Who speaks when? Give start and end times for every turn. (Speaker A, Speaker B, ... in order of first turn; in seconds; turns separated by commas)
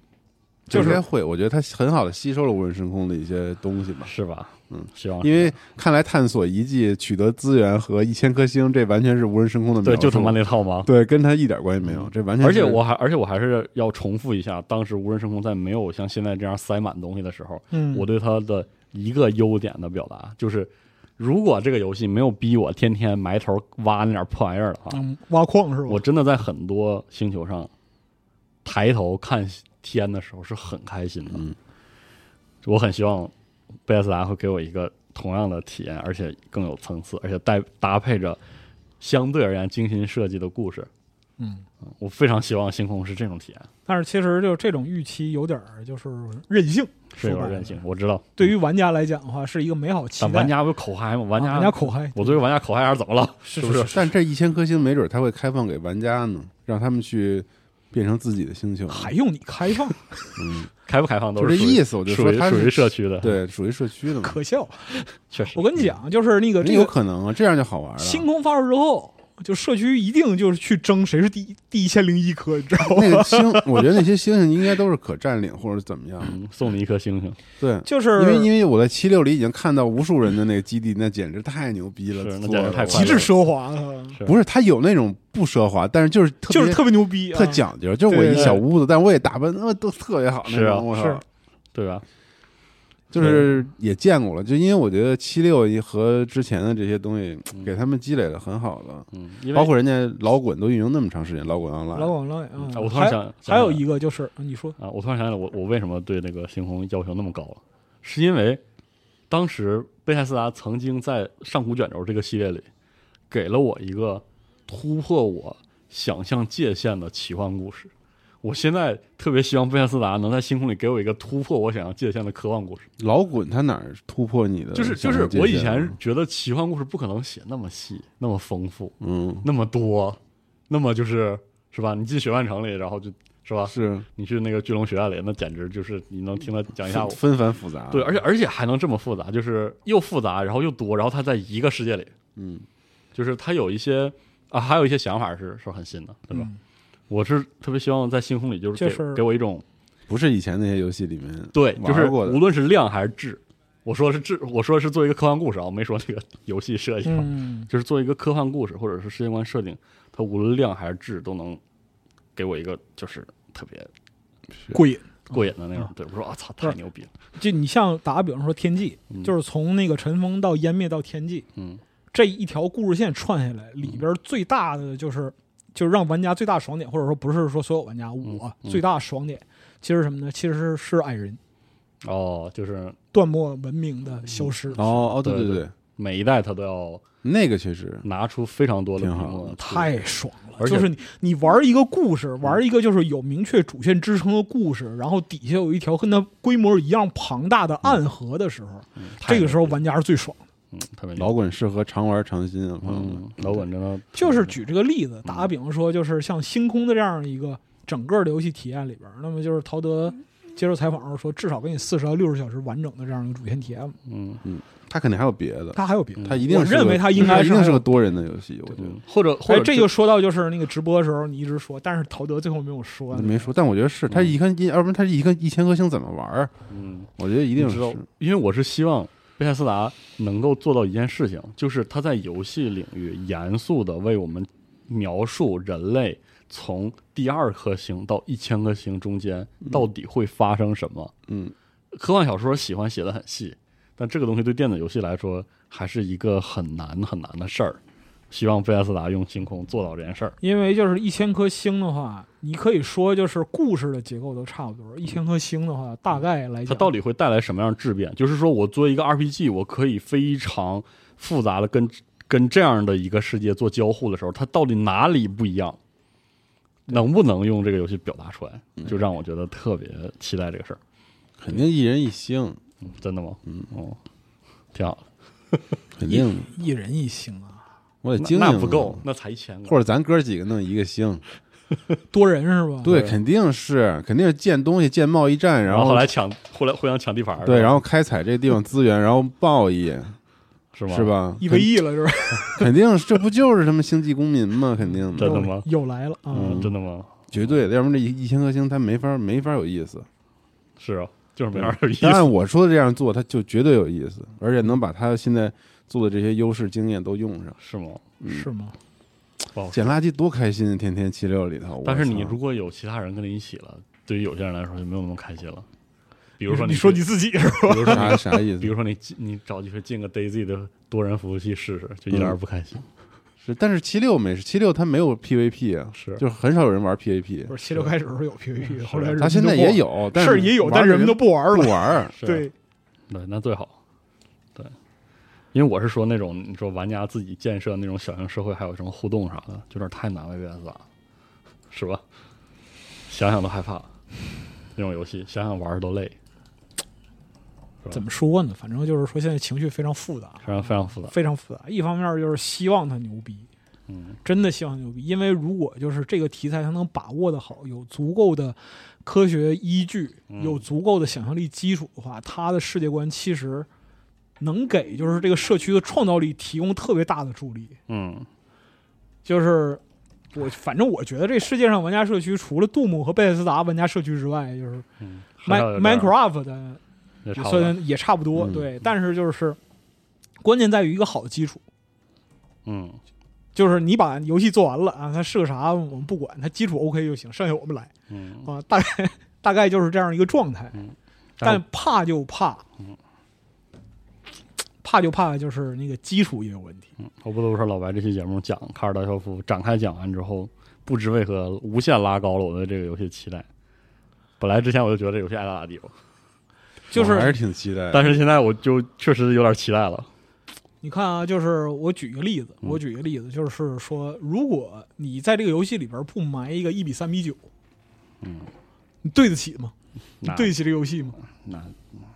Speaker A: 0.7-4.1, Speaker B: 0.7-1.0, Speaker C: 4.1-5.5, Speaker A: 4.7-12.8, Speaker C: 9.8-10.9, Speaker C: 11.8-25.0, Speaker B: 17.7-18.1, Speaker B: 24.9-26.0, Speaker C: 25.9-27.7, Speaker C: 28.6-31.5, Speaker C: 32.6-33.3, Speaker C: 33.9-38.4, Speaker C: 39.0-40.9, Speaker B: 41.4-41.6, Speaker C: 42.0-43.7, Speaker B: 43.9-47.8, Speaker C: 47.2-48.4, Speaker B: 48.4-50.5, Speaker C: 50.2-54.0, Speaker B: 51.4-52.4, Speaker B: 53.5-54.1, Speaker A: 53.9-59.1, Speaker B: 58.9-60.3, Speaker A: 60.4-60.7, Speaker C: 60.9-63.4, Speaker A: 61.4-64.4, Speaker B: 64.2-66.9, Speaker C: 65.3-65.6, Speaker A: 66.6-68.3, Speaker B: 68.0-73.8, Speaker A: 72.9-76.4, Speaker C: 76.2-77.4, Speaker A: 77.6-83.3, Speaker B: 77.9-78.5, Speaker C: 82.2-83.3, Speaker B: 82.9-84.2, Speaker A: 84.2-91.2, Speaker B: 86.5-88.6, Speaker C: 88.3-88.6, Speaker C: 90.5-90.9, Speaker B: 90.9-91.2, Speaker C: 91.7-92.0, Speaker A: 93.1-102.1, Speaker C: 93.2-93.5, Speaker C: 99.1-99.7, Speaker B: 101.9-104.8, Speaker C: 102.7-103.8, Speaker C: 104.8-108.6, Speaker C: 109.3-112.7, Speaker C: 113.3-117.9, Speaker C: 118.4-122.9, Speaker A: 123.0-126.0, Speaker C: 124.7-137.2, Speaker A: 129.0-129.4, Speaker A: 133.7-134.1, Speaker A: 136.9-138.2, Speaker C: 137.9-142.1, Speaker A: 142.4-142.7, Speaker C: 143.1-146.5, Speaker B: 146.3-146.6, Speaker C: 147.1-149.6, Speaker B: 148.8-149.2, Speaker A: 150.1-152.4, Speaker C: 151.5-161.6, Speaker B: 157.1-157.7, Speaker C: 162.4-163.9, Speaker B: 164.7-165.1, Speaker C: 165.3-167.1, Speaker B: 167.4-171.4, Speaker C: 171.6-171.8, Speaker B: 172.1-181.4, Speaker C: 178.3-178.8, Speaker C: 182.0-183.0, Speaker B: 183.1-184.8, Speaker C: 184.4-187.0, Speaker A: 184.8-185.7, Speaker A: 187.2-188.1, Speaker C: 188.0-189.9, Speaker A: 189.0-189.6, Speaker B: 189.6-200.4, Speaker C: 190.6-190.9, Speaker C: 199.0-199.8, Speaker C: 200.7-201.3, Speaker A: 201.2-203.6, Speaker C: 202.8-204.5, Speaker B: 204.2-214.0, Speaker C: 205.2-205.5, Speaker C: 214.1-214.4, Speaker A: 214.4-219.0, Speaker B: 215.8-217.9, Speaker C: 218.8-219.9, Speaker B: 219.5-223.5, Speaker A: 223.1-226.5, Speaker C: 224.1-224.3, Speaker C: 226.7-241.1, Speaker A: 227.2-228.0, Speaker A: 241.3-241.5, Speaker C: 241.9-247.8, Speaker C: 248.3-250.4, Speaker B: 250.4-256.9, Speaker C: 256.7-265.8, Speaker C: 266.9-270.8, Speaker A: 271.4-272.6, Speaker C: 272.8-274.0, Speaker C: 274.7-275.8, Speaker A: 276.0-276.5, Speaker B: 276.1-277.6, Speaker A: 278.0-279.0, Speaker C: 278.2-279.8, Speaker A: 279.7-281.2, Speaker B: 282.1-282.9, Speaker A: 282.8-286.1, Speaker C: 282.9-283.2, Speaker C: 285.7-287.8, Speaker A: 287.4-290.2, Speaker C: 290.7-291.1, Speaker A: 290.9-291.7, Speaker B: 291.4-292.7, Speaker A: 292.5-295.4, Speaker C: 295.2-295.7, Speaker B: 295.2-296.7, Speaker C: 296.3-297.4, Speaker A: 296.4-296.7, Speaker A: 297.3-300.1, Speaker C: 300.8-302.3, Speaker A: 301.5-307.6, Speaker C: 307.6-308.0, Speaker A: 308.2-308.5, Speaker B: 308.3-308.8, Speaker C: 309.6-309.9, Speaker A: 309.7-312.4, Speaker C: 311.8-315.7, Speaker C: 316.4-317.1, Speaker B: 316.5-318.4, Speaker C: 317.6-322.8, Speaker A: 317.9-318.7, Speaker A: 322.1-322.4, Speaker A: 323.4-327.6, Speaker C: 326.0-326.2, Speaker B: 327.5-332.5, Speaker C: 328.8-329.2, Speaker A: 329.2-332.1, Speaker C: 332.2-332.5, Speaker C: 333.1-333.8, Speaker C: 335.5-340.8, Speaker C: 341.7-342.0, Speaker C: 343.1-343.9, Speaker C: 344.8-346.1, Speaker B: 347.9-353.5, Speaker C: 350.4-351.1, Speaker C: 353.9-354.2, Speaker B: 354.2-363.7, Speaker C: 360.3-360.6, Speaker B: 364.4-367.8, Speaker C: 367.9-368.3, Speaker B: 369.2-369.8, Speaker B: 370.3-374.9, Speaker C: 375.0-376.1, Speaker B: 375.4-376.8, Speaker C: 377.2-377.8, Speaker B: 377.4-379.6, Speaker B: 380.4-381.6, Speaker C: 382.7-383.0, Speaker B: 383.6-387.9, Speaker C: 388.1-388.5, Speaker B: 388.4-390.8, Speaker C: 390.8-391.6, Speaker B: 391.4-392.6, Speaker B: 394.8-396.9, Speaker C: 397.0-403.5, Speaker C: 404.4-405.9, Speaker B: 406.9-407.4, Speaker A: 406.9-408.2, Speaker C: 407.0-407.3, Speaker C: 407.9-410.1, Speaker B: 410.8-417.4, Speaker C: 418.2-418.5, Speaker B: 419.0-421.2, Speaker C: 420.2-420.6, Speaker C: 421.4-422.0